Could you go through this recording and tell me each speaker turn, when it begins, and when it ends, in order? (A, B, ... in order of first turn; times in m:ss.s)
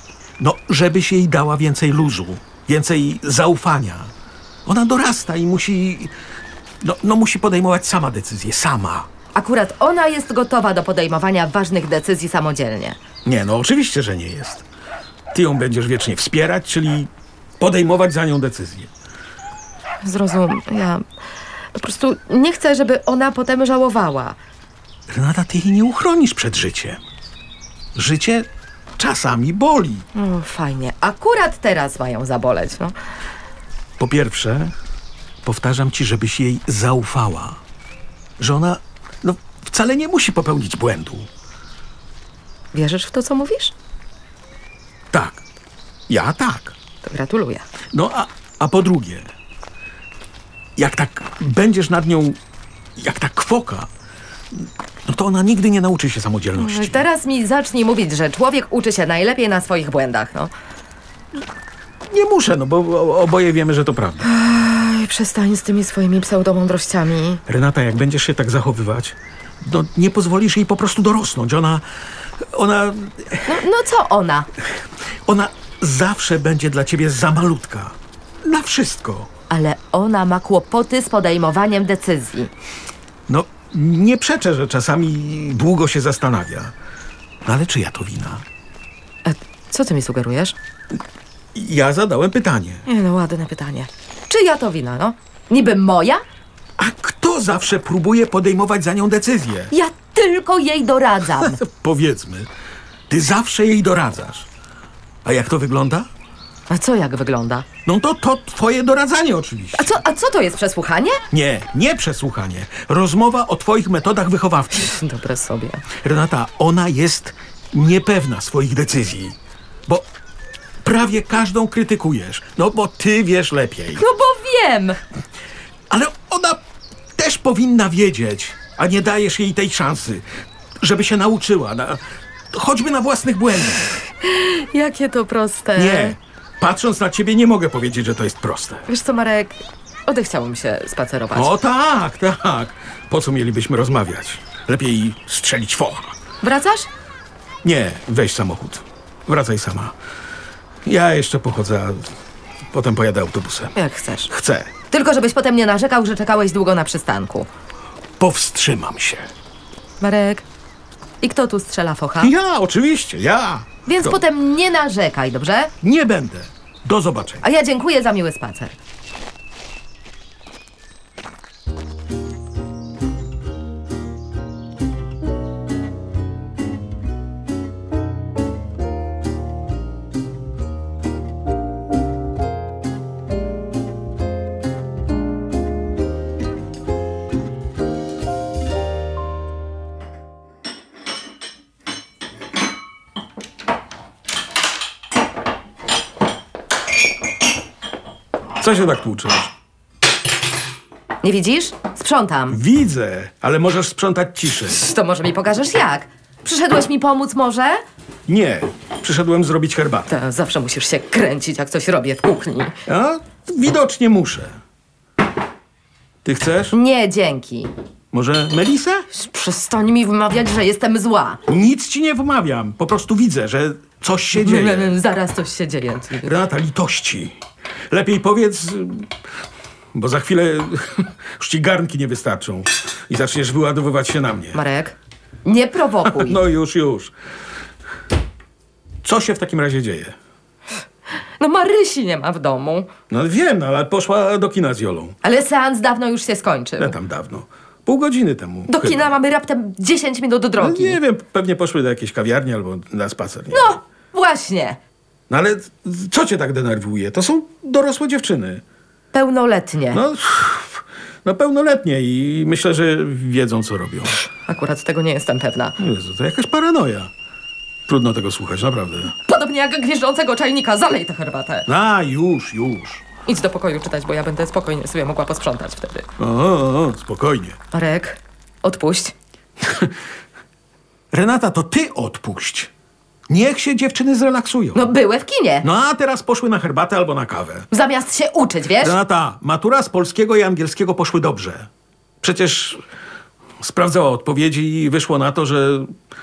0:00.4-0:04.1 A
0:04.6-0:06.1 A
0:06.8-0:09.1 A
0:09.3-0:13.0 B
0:13.2-0:14.6 A
0:15.3-0:18.9 A
0:20.0-0:21.0 B
0:21.7-0:24.4 B
0:25.1-0:27.0 A
0:27.9-0:30.0 A
0:30.1-0:32.9 B
0:34.0-0:34.7 A
0:35.4-0:37.6 A
0:38.4-0:41.3 A
0:42.7-0:43.7 B
0:45.1-0:45.4 A
0:46.1-0:46.8 A
0:47.0-0:47.6 B
0:47.9-0:49.3 A
0:50.8-0:52.4 A
0:53.0-0:53.9 A
0:54.5-0:57.0 A
0:56.5-1:00.5 B
1:02.1-1:04.3 A
1:04.2-1:07.4 B
1:07.4-1:11.8 A
1:12.4-1:13.6 A
1:13.5-1:14.5 B
1:15.2-1:19.3 A
1:19.5-1:22.5 B
1:23.3-1:26.7 A
1:27.4-1:28.4 A
1:29.2-1:30.6 B
1:31.5-1:32.8 A
1:32.8-1:36.2 B
1:36.8-1:39.7 A
1:39.7-1:41.6 B
1:41.4-1:42.5 A
1:43.1-1:44.5 A
1:45.2-1:46.1 A
1:46.7-1:47.6 B
1:47.8-1:49.9 A
1:49.7-1:51.2 B
1:51.3-1:54.9 A
1:54.8-1:55.8 B
1:56.0-2:00.0 A
2:00.8-2:04.0 A
2:03.9-2:05.0 B
2:05.9-2:06.6 A
2:07.2-2:10.2 A
2:10.8-2:14.0 A
2:14.2-2:16.2 B
2:15.8-2:18.8 A
2:18.9-2:21.5 B
2:21.3-2:26.1 A
2:26.4-2:26.9 B
2:27.6-2:29.9 A
2:30.8-2:32.1 A
2:32.7-2:33.7 A
2:33.7-2:34.3 B
2:34.3-2:34.7 A
2:34.9-2:37.5 B
2:38.2-2:39.3 A
2:40.0-2:40.4 B
2:41.2-2:42.3 B
2:42.2-2:44.2 A
2:43.8-2:45.7 B
2:45.8-2:47.4 A
2:47.4-2:48.8 B
3:18.6-3:19.5 A
3:21.2-3:22.6 B
3:22.5-3:24.8 A
3:24.6-3:27.8 B
3:28.3-3:30.1 A
3:30.1-3:32.8 B
3:32.8-3:34.6 A
3:36.2-3:36.8 A
3:36.7-3:37.7 B
3:38.1-3:39.0 A
3:39.1-3:41.4 B
3:41.5-3:45.0 A
3:44.4-3:46.4 B
3:46.2-3:47.3 A
3:47.9-3:49.1 A
3:49.9-3:54.6 A
3:54.5-3:56.4 B
3:56.0-3:57.1 A
3:59.0-4:00.1 A
4:01.4-4:02.9 B
4:03.1-4:05.1 A
4:05.2-4:07.0 B
4:06.8-4:09.1 A
4:08.7-4:11.0 B
4:10.6-4:13.8 A
4:13.5-4:14.8 B
4:15.3-4:18.6 A
4:19.1-4:20.0 B
4:19.9-4:24.2 A
4:24.4-4:25.8 B
4:25.8-4:27.1 A
4:27.9-4:29.2 A
4:29.2-4:31.7 B
4:31.7-4:33.0 A
4:33.2-4:36.1 B
4:36.2-4:37.6 A
4:37.7-4:39.1 B
4:39.6-4:39.9 A
4:41.1-4:42.7 A
4:43.3-4:44.9 A
4:44.7-4:45.7 B
4:45.6-4:47.7 A
4:47.7-4:49.0 B
4:48.8-4:51.7 A
4:52.2-4:52.8 A
4:53.6-4:55.9 A